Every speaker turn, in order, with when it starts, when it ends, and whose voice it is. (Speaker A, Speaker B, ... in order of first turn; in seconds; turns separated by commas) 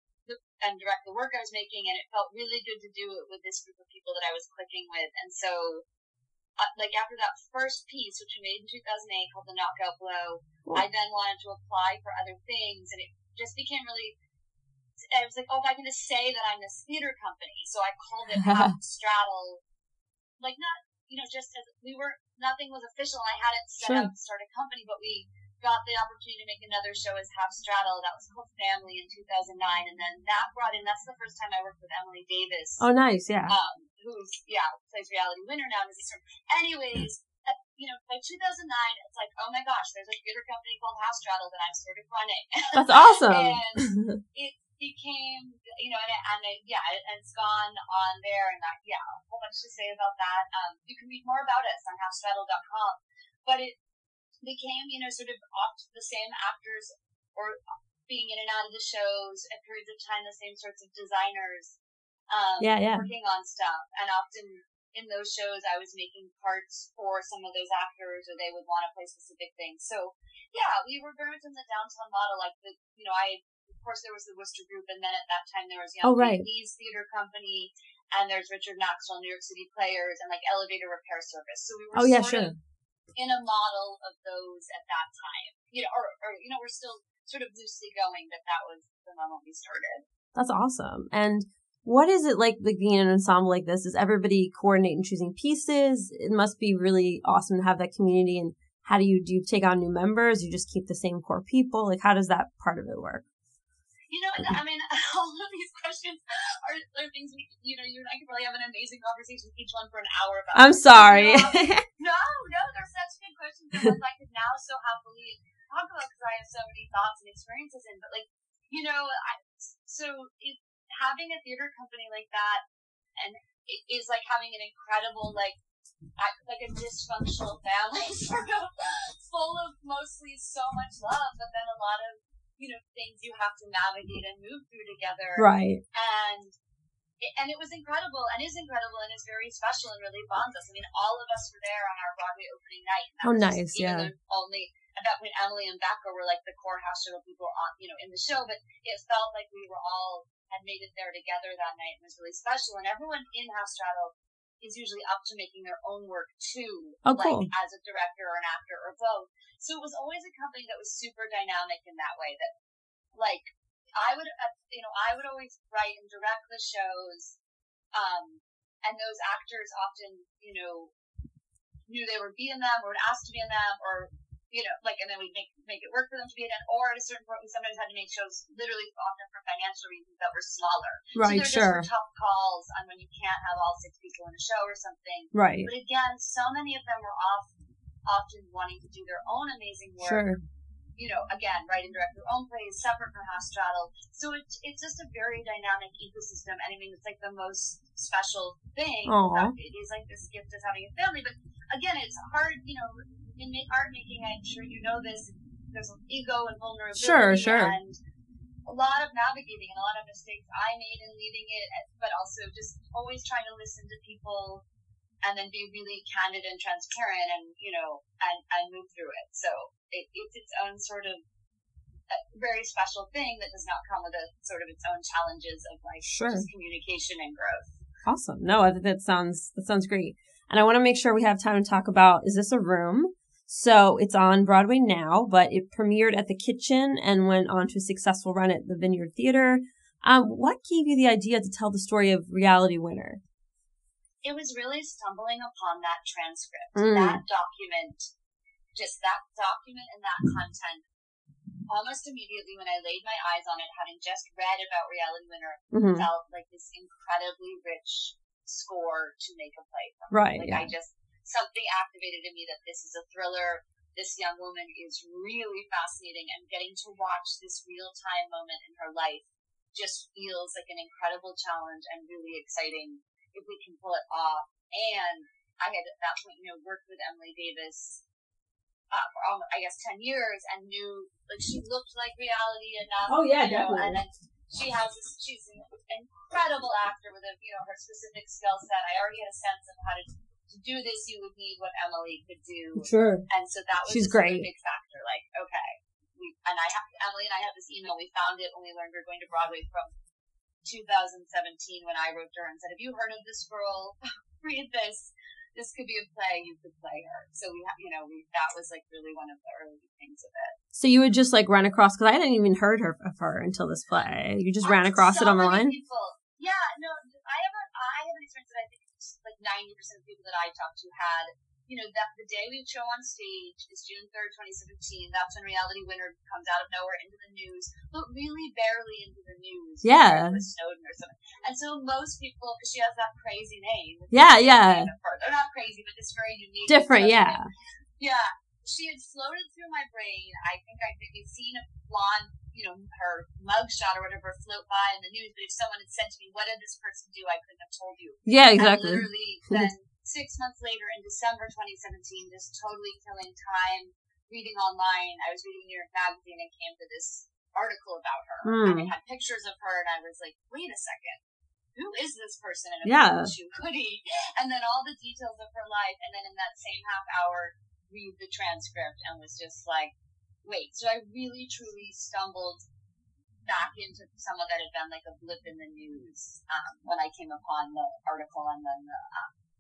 Speaker A: 0.3-5.8, Speaker A: 6.6-14.2, Speaker A: 15.0-19.6, Speaker B: 18.4-18.7, Speaker A: 20.4-32.9, Speaker B: 23.8-24.1, Speaker B: 32.8-33.5, Speaker A: 33.5-53.8, Speaker B: 42.8-44.2, Speaker A: 54.4-61.8, Speaker A: 62.3-82.5, Speaker B: 62.6-63.1, Speaker B: 76.0-76.5, Speaker B: 81.9-82.6, Speaker A: 83.2-90.0, Speaker B: 90.3-103.2, Speaker A: 104.1-122.6, Speaker B: 110.5-111.8, Speaker A: 123.2-125.6, Speaker A: 126.2-136.6, Speaker B: 135.4-135.8, Speaker A: 137.2-162.5, Speaker B: 143.2-144.1, Speaker B: 157.1-157.5, Speaker A: 163.1-167.4, Speaker A: 167.9-170.9, Speaker A: 171.9-187.5, Speaker B: 181.2-181.9, Speaker B: 185.3-185.7, Speaker A: 188.1-190.3, Speaker B: 190.0-190.4, Speaker A: 191.0-208.0, Speaker B: 199.1-199.6, Speaker B: 206.9-207.8, Speaker A: 208.7-214.6, Speaker A: 215.2-221.2, Speaker A: 222.1-227.8, Speaker B: 226.1-226.5, Speaker B: 228.1-243.2, Speaker A: 244.2-248.1, Speaker B: 246.8-247.2, Speaker A: 248.8-250.8, Speaker A: 251.7-278.0, Speaker B: 255.7-256.1, Speaker B: 260.1-260.7, Speaker A: 278.9-299.9, Speaker B: 283.1-284.0, Speaker B: 292.8-293.3, Speaker B: 293.9-294.5, Speaker A: 300.6-310.6, Speaker B: 310.8-315.8, Speaker A: 314.6-337.5, Speaker B: 329.8-330.4, Speaker B: 334.1-334.9, Speaker B: 336.7-337.5, Speaker A: 338.0-361.2, Speaker B: 348.3-349.7, Speaker B: 358.4-358.9, Speaker A: 361.8-372.6, Speaker B: 362.9-363.3, Speaker A: 373.5-379.3